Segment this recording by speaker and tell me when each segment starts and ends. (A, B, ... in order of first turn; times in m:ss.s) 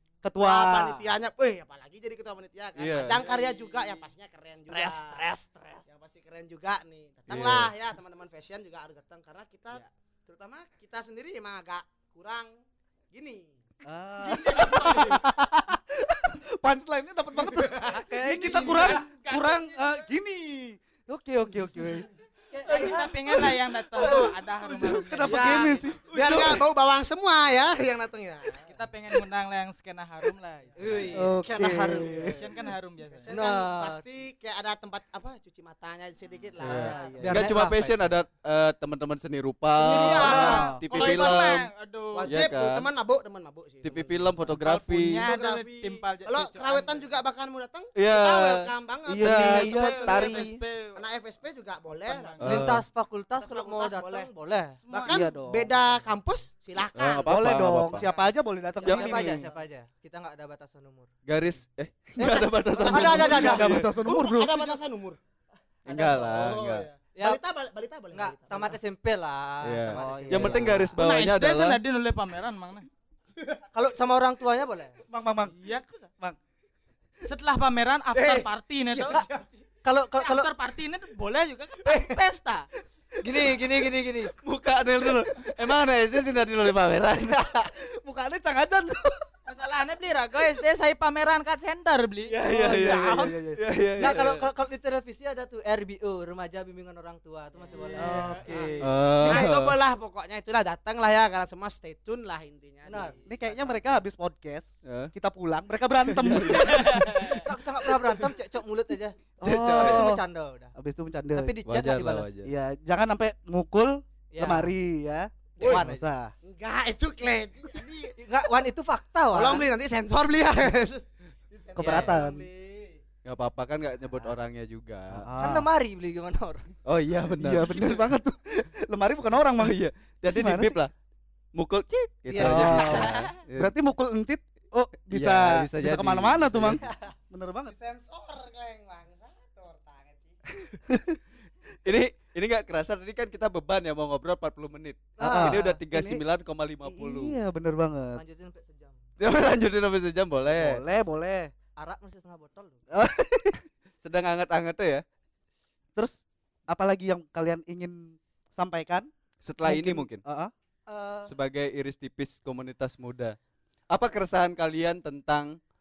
0:00.2-0:01.1 A
0:00.4-0:05.2 B
0:02.8-0:03.3 C
0:03.1-0:04.1 D
0:04.6-0:05.9 E
0:05.9-0:12.6 B
0:07.3-0:07.7 C
0:13.1-0:13.6 B
0:13.8-0:22.1 A
0:14.2-0:15.2 B
0:17.4-0:19.1 B
0:18.2-0:20.0 D
0:22.6-0:23.1 B
0:22.6-0:26.4 D
0:22.8-0:26.5 A
0:25.2-0:28.7 B
0:26.2-0:26.6 C
0:28.7-0:33.4 D
0:30.8-0:32.3 E
0:31.1-0:32.6 A
0:33.1-0:37.2 B
0:33.3-0:34.0 E
0:36.6-0:41.7 C
0:36.6-0:37.6 A
0:37.2-0:38.0 E
0:39.7-0:44.3 B
0:39.9-0:42.3 D
0:40.2-0:40.7 E
0:40.2-0:40.8 A
0:42.2-0:42.9 C
0:43.8-0:45.2 C
0:44.5-0:47.1 D
0:45.2-0:52.4 B
0:48.0-0:50.6 C
0:49.1-0:50.0 A
0:49.5-0:51.0 D
0:52.0-0:52.7 D
0:52.4-0:52.8 C
0:52.4-0:54.8 E
0:53.4-0:54.3 B
0:54.8-0:55.2 D
0:54.9-0:58.3 B
0:55.1-0:55.8 A
0:56.8-0:58.1 C
0:57.3-0:59.5 A
0:58.8-0:59.5 B
0:58.8-1:01.1 E
0:58.8-0:59.2 C
1:01.3-1:03.9 C
1:02.2-1:03.8 E
1:02.8-1:05.2 B
1:02.9-1:04.8 A
1:05.9-1:06.9 C
1:05.9-1:08.8 B
1:08.1-1:10.9 E
1:09.6-1:11.8 C
1:09.9-1:11.0 A
1:11.0-1:12.9 D
1:13.7-1:15.0 E
1:15.1-1:15.6 A
1:15.5-1:16.1 D
1:17.2-1:19.2 D
1:18.1-1:19.7 B
1:19.8-1:20.5 E
1:20.2-1:22.7 D
1:23.2-1:24.3 E
1:24.4-1:27.7 C
1:27.7-1:29.3 A
1:29.5-1:33.3 D
1:32.3-1:34.5 C
1:32.4-1:33.6 A
1:34.0-1:38.8 E
1:37.7-1:38.8 D
1:38.0-1:38.8 A
1:38.8-1:39.8 C
1:39.2-1:43.8 B
1:42.8-1:43.2 E
1:43.3-1:47.2 A
1:44.8-1:45.1 C
1:46.1-1:48.1 C
1:46.6-1:47.4 D
1:47.2-1:50.7 E
1:49.4-1:50.2 A
1:49.4-1:50.2 C
1:50.8-1:51.6 A
1:51.3-1:52.3 E
1:51.6-1:52.5 C
1:52.4-1:56.3 A
1:54.3-1:54.7 E
1:55.6-1:56.1 E
1:55.6-1:55.9 B
1:56.4-1:58.2 B
1:58.2-1:59.7 E
1:59.3-2:03.0 B
2:01.8-2:02.5 A
2:01.8-2:02.2 E
2:03.2-2:05.3 C
2:05.2-2:05.7 A
2:05.4-2:06.7 E
2:06.9-2:08.1 C
2:07.4-2:10.8 A
2:09.6-2:10.9 C
2:11.5-2:13.8 C
2:12.3-2:13.4 E
2:12.4-2:17.8 A
2:15.1-2:16.9 C
2:16.8-2:17.1 E
2:17.7-2:20.4 B
2:20.5-2:20.8 C
2:20.9-2:21.2 A
2:21.8-2:27.4 C
2:25.2-2:25.8 E
2:25.2-2:26.2 A
2:26.8-2:28.2 A
2:28.1-2:29.0 E
2:29.2-2:30.8 C
2:30.5-2:31.5 A
2:31.8-2:32.8 E
2:32.9-2:33.6 A
2:34.0-2:35.0 C
2:36.0-2:39.1 A
2:39.4-2:40.2 C
2:39.6-2:40.5 A
2:40.9-2:41.3 E
2:41.2-2:43.4 C
2:43.9-2:45.6 C